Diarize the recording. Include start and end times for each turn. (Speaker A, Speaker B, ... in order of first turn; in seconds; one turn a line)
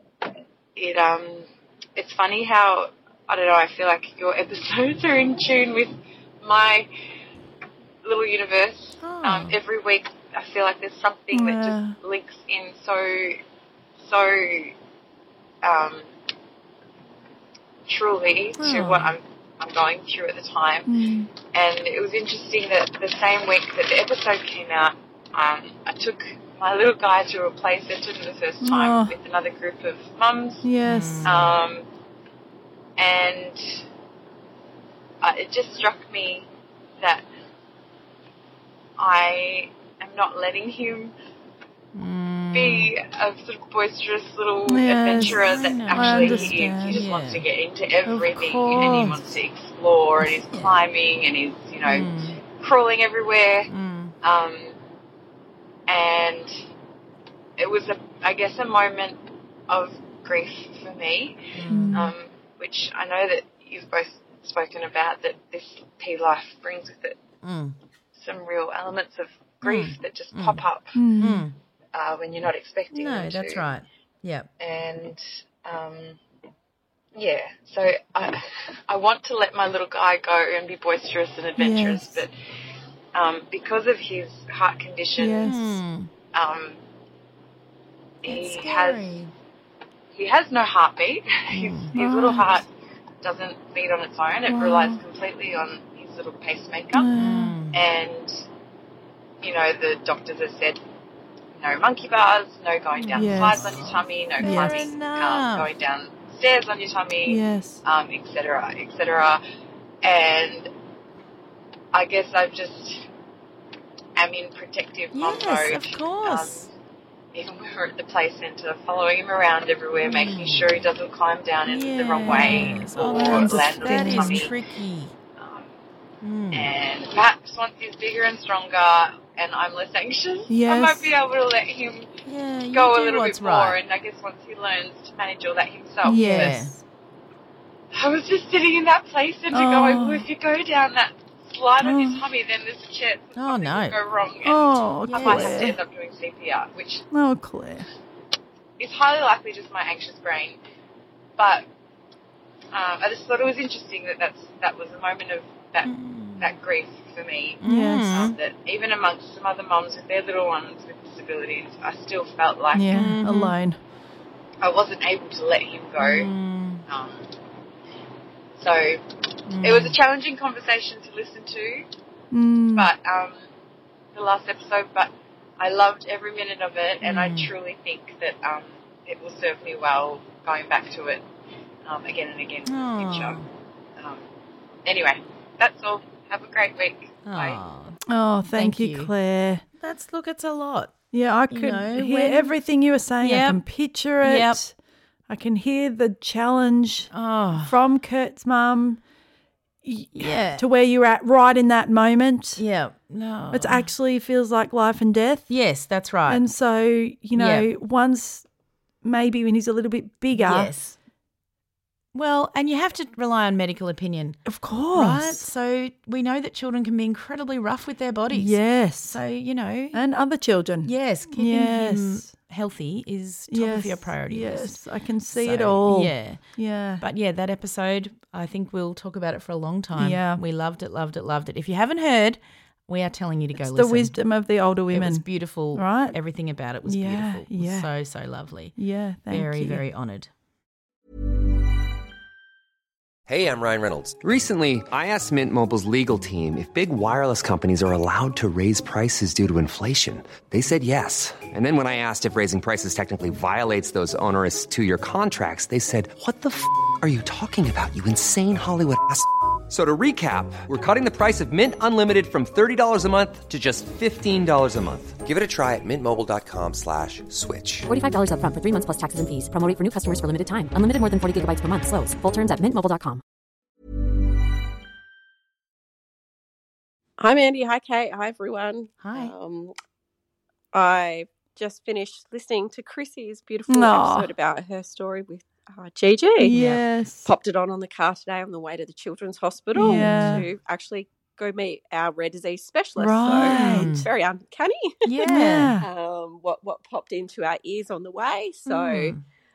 Speaker A: 0.7-6.9
Speaker A: 8.0-13.4
Speaker B: 9.0-9.6
Speaker C: 11.3-12.0
Speaker A: 14.0-14.7
Speaker A: 15.6-16.1
Speaker A: 17.9-20.9
Speaker C: 18.6-19.1
Speaker C: 20.9-21.3
Speaker A: 21.5-30.7
Speaker C: 28.6-29.1
Speaker C: 30.6-31.3
Speaker B: 30.8-31.4
Speaker A: 31.2-31.9
Speaker A: 33.0-33.8
Speaker A: 35.2-36.5
Speaker A: 37.0-37.2
Speaker A: 39.0-41.1
Speaker B: 41.9-42.9
Speaker A: 42.5-53.7
Speaker C: 44.7-47.0
Speaker B: 45.2-47.5
Speaker C: 48.1-49.2
Speaker B: 48.7-49.1
Speaker B: 51.9-52.4
Speaker B: 53.7-54.1
Speaker A: 54.2-54.8
Speaker A: 55.9-56.5
Speaker A: 57.6-67.2
Speaker B: 61.5-62.0
Speaker C: 61.7-62.1
Speaker B: 67.4-67.8
Speaker A: 68.1-71.1
Speaker B: 69.6-70.6
Speaker C: 70.9-71.5
Speaker B: 71.2-71.5
Speaker A: 71.9-73.7
Speaker B: 72.9-74.5
Speaker A: 74.6-76.2
Speaker A: 77.2-82.3
Speaker C: 81.6-82.2
Speaker A: 83.1-85.5
Speaker C: 85.2-85.8
Speaker B: 85.4-86.1
Speaker A: 86.3-86.8
Speaker A: 88.2-89.2
Speaker B: 88.2-89.3
Speaker A: 90.1-92.7
Speaker B: 91.5-91.9
Speaker C: 91.9-92.5
Speaker A: 93.2-97.1
Speaker C: 94.5-95.0
Speaker C: 96.9-97.6
Speaker B: 97.1-97.8
Speaker A: 97.7-98.4
Speaker A: 99.4-100.8
Speaker A: 101.5-109.4
Speaker B: 103.0-105.7
Speaker C: 103.2-103.6
Speaker C: 104.4-104.8
Speaker C: 107.2-107.8
Speaker A: 110.0-110.7
Speaker A: 111.9-113.1
Speaker A: 114.2-116.7
Speaker B: 115.1-116.7
Speaker A: 117.3-124.5
Speaker B: 120.1-120.7
Speaker B: 121.7-125.1
Speaker C: 122.2-124.5
Speaker A: 125.4-125.7
Speaker B: 126.2-126.7
Speaker A: 126.5-132.2
Speaker C: 130.5-131.1
Speaker B: 132.2-133.8
Speaker A: 132.7-136.6
Speaker C: 136.0-136.8
Speaker B: 136.1-136.7
Speaker A: 137.9-147.0
Speaker C: 139.5-140.3
Speaker C: 141.8-142.2
Speaker B: 143.3-144.0
Speaker C: 144.4-145.8
Speaker B: 145.1-145.6
Speaker C: 147.1-147.9
Speaker A: 148.8-150.6
Speaker A: 151.4-151.6
Speaker A: 152.7-163.1
Speaker B: 155.8-156.5
Speaker B: 157.6-158.3
Speaker C: 157.6-158.3
Speaker C: 162.7-163.8
Speaker B: 162.9-163.6
Speaker A: 164.6-166.3
Speaker B: 166.0-166.8
Speaker A: 166.9-167.2
Speaker A: 168.6-171.9
Speaker B: 169.5-169.9
Speaker C: 172.3-172.9
Speaker A: 172.7-173.4
Speaker A: 174.1-181.2
Speaker B: 177.0-177.5
Speaker A: 181.8-183.4
Speaker B: 182.7-183.5
Speaker A: 184.0-184.2
Speaker A: 184.8-187.6
Speaker B: 187.2-188.0
Speaker C: 188.1-189.6
Speaker B: 188.5-189.1
Speaker B: 189.8-190.9
Speaker C: 191.1-194.7
Speaker B: 191.5-192.5
Speaker B: 193.2-193.6
Speaker B: 194.2-194.6
Speaker C: 195.3-199.0
Speaker B: 197.1-197.7
Speaker C: 199.8-202.6
Speaker B: 200.2-200.6
Speaker B: 202.6-203.9
Speaker C: 203.5-205.5
Speaker B: 205.5-206.4
Speaker C: 206.3-208.4
Speaker B: 207.3-207.7
Speaker C: 209.0-210.7
Speaker B: 210.3-210.9
Speaker B: 212.1-220.0
Speaker C: 214.5-215.4
Speaker C: 218.3-219.2
Speaker C: 219.9-222.3
Speaker B: 220.8-224.8
Speaker C: 223.5-227.0
Speaker B: 225.3-226.4
Speaker B: 227.0-234.1
Speaker C: 229.9-230.4
Speaker C: 233.6-236.2
Speaker B: 234.9-238.8
Speaker C: 236.8-237.9
Speaker C: 238.8-239.8
Speaker B: 239.3-240.3
Speaker D: 243.3-267.9
Speaker E: 267.9-273.2
Speaker F: 277.2-279.7
Speaker B: 279.0-279.3
Speaker F: 280.7-286.5
Speaker C: 283.7-284.3
Speaker C: 286.4-287.3
Speaker B: 286.4-286.8
Speaker F: 287.2-299.1
Speaker C: 289.8-290.4
Speaker B: 289.8-290.4
Speaker C: 293.0-294.0
Speaker B: 293.3-294.1
Speaker B: 295.0-295.8
Speaker C: 295.2-295.9
Speaker B: 298.7-299.2